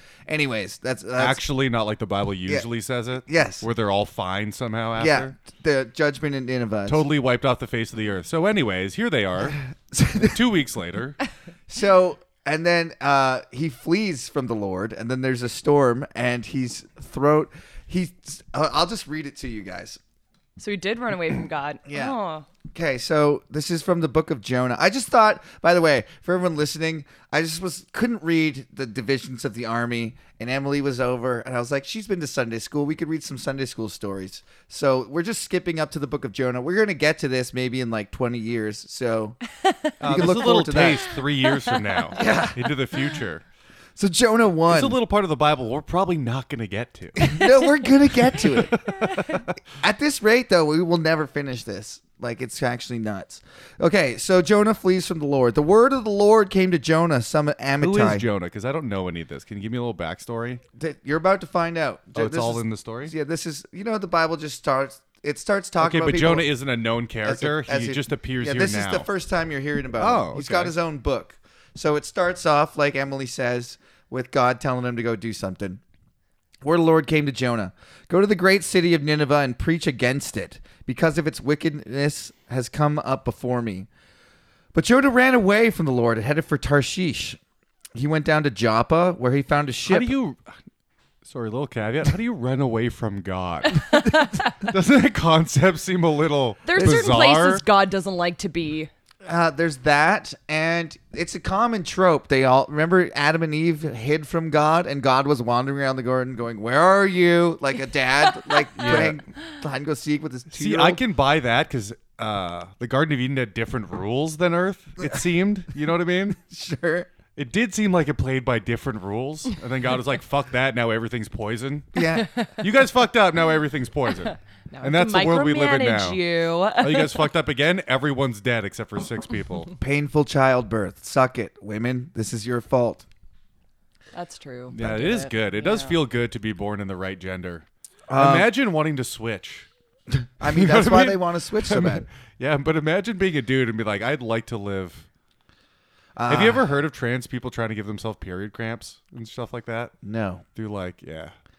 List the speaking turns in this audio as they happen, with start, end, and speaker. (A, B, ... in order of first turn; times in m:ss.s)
0:00.3-0:01.4 A
0:01.2-0:05.4 B
0:03.3-0:03.7 A
0:05.0-0:07.1 A
0:06.9-0:09.6 B
0:09.4-0:10.4 A
0:10.2-0:11.2 B
0:11.7-0:20.0 A
0:20.6-0:22.5 C
0:21.9-0:22.2 A
0:22.7-0:39.4 A
0:39.7-0:39.9 C
0:40.0-0:43.4 B
0:40.0-0:41.1 A
0:42.2-0:42.6 A
0:44.0-0:45.0 A
0:44.7-0:47.3 B
0:47.2-0:48.9 A
0:48.7-0:49.5 B
0:49.7-0:58.3 A
0:57.8-1:00.6 B
1:00.8-1:06.5 A
1:02.1-1:03.1 B
1:05.8-1:09.1 B
1:07.2-1:15.8 A
1:10.0-1:10.8 B
1:16.6-1:23.9 A
1:24.7-1:27.4 A
1:28.0-1:30.1 A
1:29.8-1:30.5 B
1:31.2-1:37.6 B
1:33.9-1:34.6 C
1:36.6-1:38.9 C
1:36.8-1:37.1 A
1:39.2-1:51.0 A
1:48.4-1:48.8 C
1:48.8-1:49.2 B
1:50.5-1:56.4 B
1:56.4-1:57.1 A
1:57.3-2:06.2 B
2:01.9-2:02.3 A
2:02.0-2:02.6 C
2:04.2-2:07.3 C
2:06.8-2:09.7 B
2:09.8-2:13.0 A
2:14.1-2:16.0 C
2:14.7-2:19.7 B
2:18.1-2:18.5 A
2:20.4-2:22.1 A
2:20.4-2:25.1 B
2:26.2-2:26.8 A
2:26.3-2:29.9 B
2:30.0-2:30.4 A
2:30.6-2:31.3 B